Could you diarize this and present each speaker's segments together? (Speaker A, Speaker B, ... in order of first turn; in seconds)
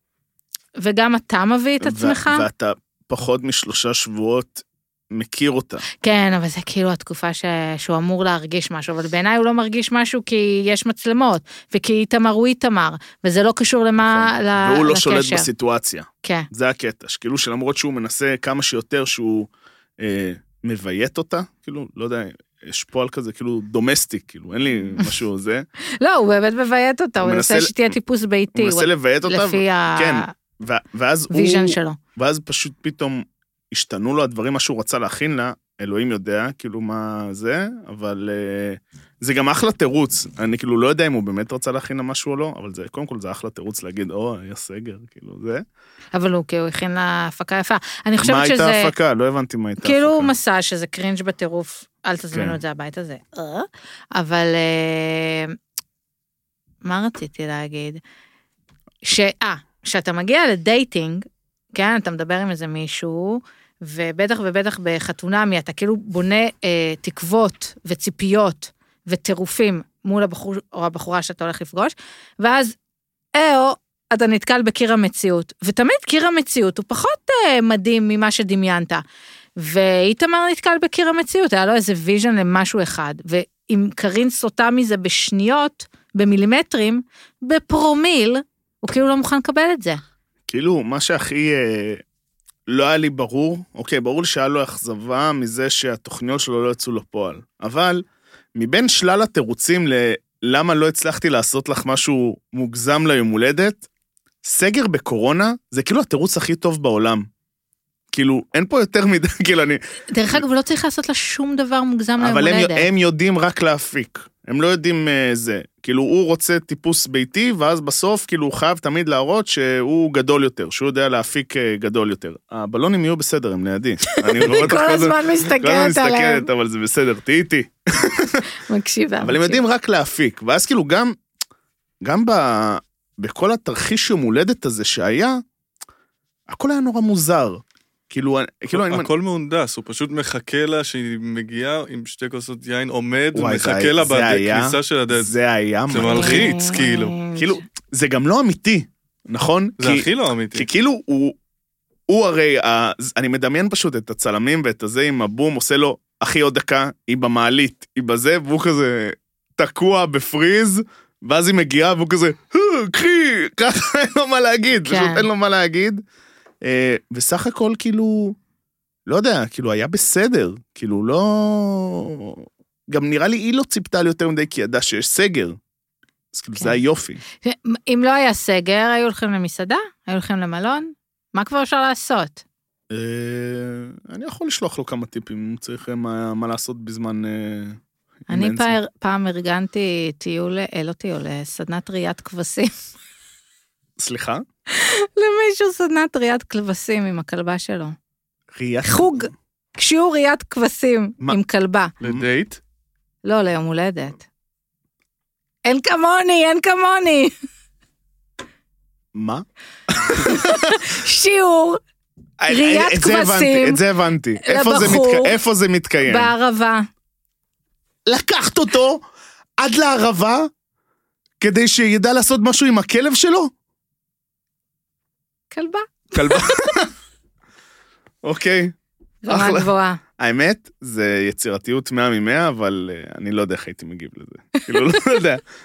Speaker A: 0.8-2.5, 6.0-15.5, 16.2-16.5, 26.0-30.3, 31.3-32.0, 46.1-48.9, 49.8-55.5, 56.8-58.0, 59.0-72.8, 73.3-79.0, 79.6-90.0, 110.1-112.9, 124.1-126.5, 128.6-129.6, 146.0-147.6, 164.8-165.3, 177.4-182.4, 188.3-192.7, 194.7-197.9, 198.8-201.9, 203.2-204.2, 205.6-207.3, 210.1-211.8, 212.5-213.8, 214.4-215.3, 216.0-216.8, 225.5-226.8, 229.2-230.0, 234.6-235.2
Speaker B: 1.8-5.8, 14.0-25.6, 27.2-27.9, 28.5-45.6, 48.2-50.3, 52.3-52.6, 90.5-92.0, 92.7-98.0, 98.5-103.8, 104.4-107.3, 108.1-109.8, 112.2-128.4, 129.2-131.2, 132.0-135.4, 136.5-139.1, 143.3-146.6, 147.3-151.4, 152.1-166.0, 166.6-168.4, 169.1-175.6, 176.3-177.2, 182.9-188.8, 194.0-194.4, 198.5-199.3, 209.1-210.9, 212.4-216.3, 218.1-219.0, 219.6-220.5, 221.4-223.5, 226.1-226.9, 228.2-228.8, 229.3-235.4
Speaker C: 138.7-145.3, 145.9-147.2, 149.8-150.7, 202.0-202.6